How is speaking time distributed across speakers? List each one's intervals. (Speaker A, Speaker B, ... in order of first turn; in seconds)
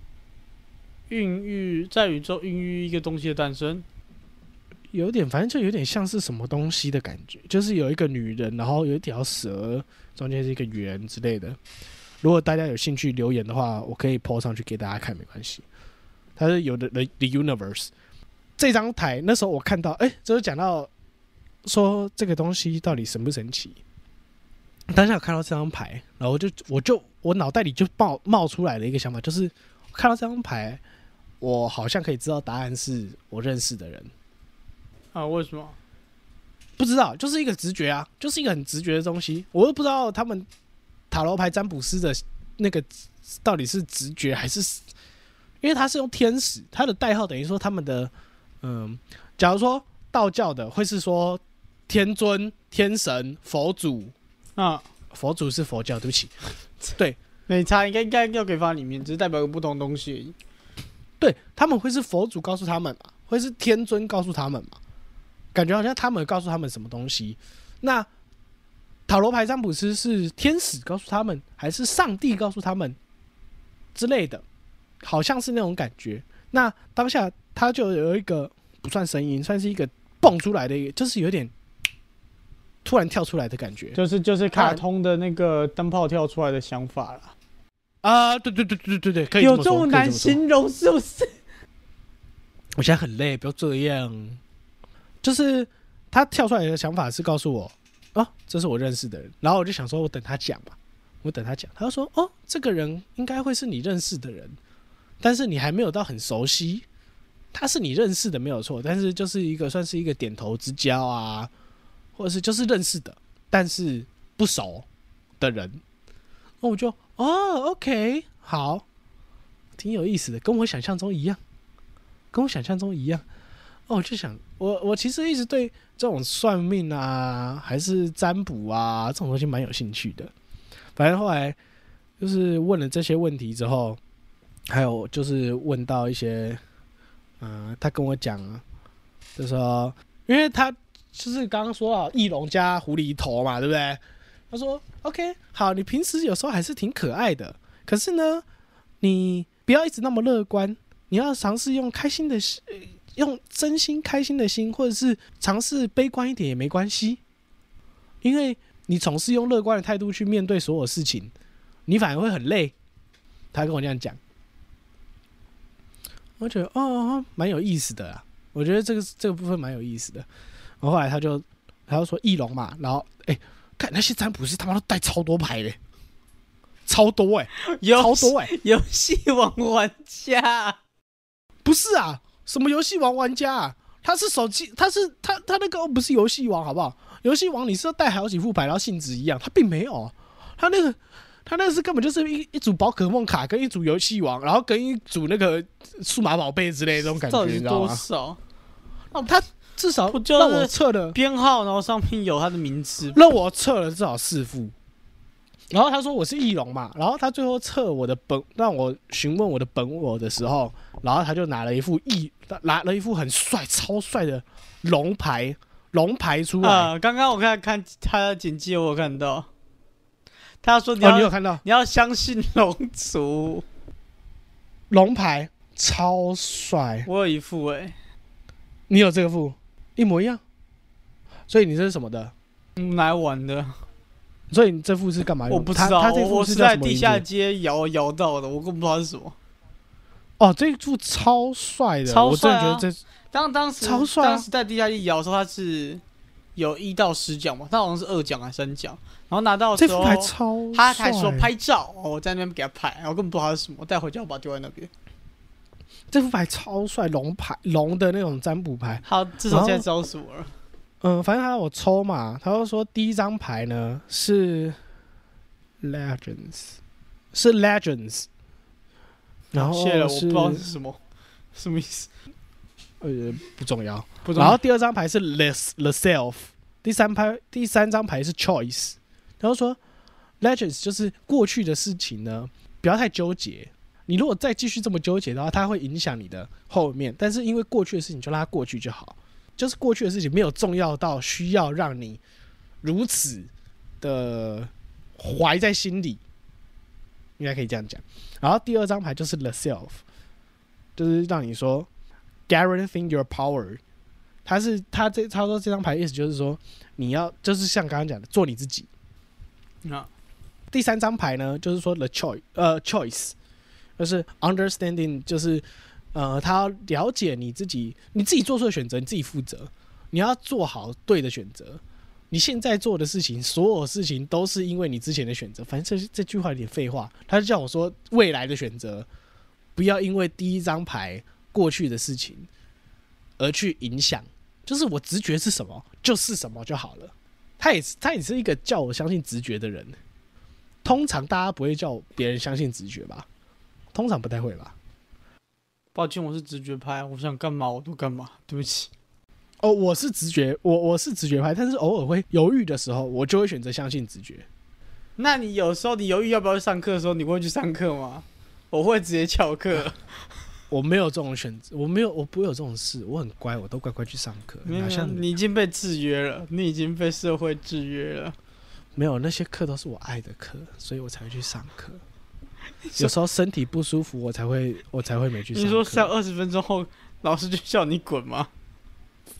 Speaker A: 1.1-3.9, 35.1-35.8, 54.6-54.9, 57.5-60.4, 84.0-87.3, 89.4-91.4, 177.7-180.8, 197.1-198.4, 200.1-203.2, 216.6-219.5, 220.6-223.7, 227.1-227.9, 232.8-233.8, 235.5-239.4, 242.1-246.0, 246.6-254.9, 259.1-260.5, 269.6-271.0, 271.5-272.1, 274.2-274.6, 309.8-310.1, 345.9-348.9, 355.2-360.0, 364.6-368.4, 372.9-373.1, 375.5-378.5
Speaker B: 4.9-11.6, 12.2-15.6, 16.4-17.9, 18.6-20.9, 21.6-23.8, 24.9-30.8, 31.4-34.1, 36.8-40.5, 41.1-42.9, 43.4-44.8, 45.6-54.1, 55.1-56.3, 61.2-64.8, 65.5-68.1, 69.1-73.0, 74.0-74.4, 75.0-81.5, 82.8-84.0, 84.5-84.8, 88.0-90.4, 92.8-94.4, 95.2-104.6, 105.2-106.9, 107.5-111.5, 112.2-114.9, 115.4-115.8, 116.6-118.8, 119.8-121.4, 122.3-123.2, 123.9-130.3, 130.9-131.6, 132.2-134.0, 134.7-136.6, 137.4-138.6, 139.4-148.4, 149.0-157.2, 158.2-161.3, 161.9-162.7, 163.5-164.2, 166.4-170.3, 170.8-175.8, 176.9-178.5, 181.6-198.0, 199.1-201.2, 203.1-204.7, 205.7-216.9, 221.0-221.6, 224.9-227.1, 228.9-230.4, 231.5-232.3, 234.5-237.2, 240.4-243.0, 243.8-244.5, 249.8-251.5, 256.1-259.9, 261.0-264.8, 265.8-266.8, 267.3-268.3, 269.5-270.7, 273.0-279.8, 280.4-292.2, 292.8-293.5, 294.0-296.2, 297.4-300.0, 300.9-301.9, 302.5-303.8, 304.4-308.9, 310.7-313.4, 314.0-329.1, 329.8-332.5, 333.4-339.9, 340.8-343.3, 343.9-344.7, 349.6-354.4, 360.7-365.3, 368.9-372.0, 373.0-376.1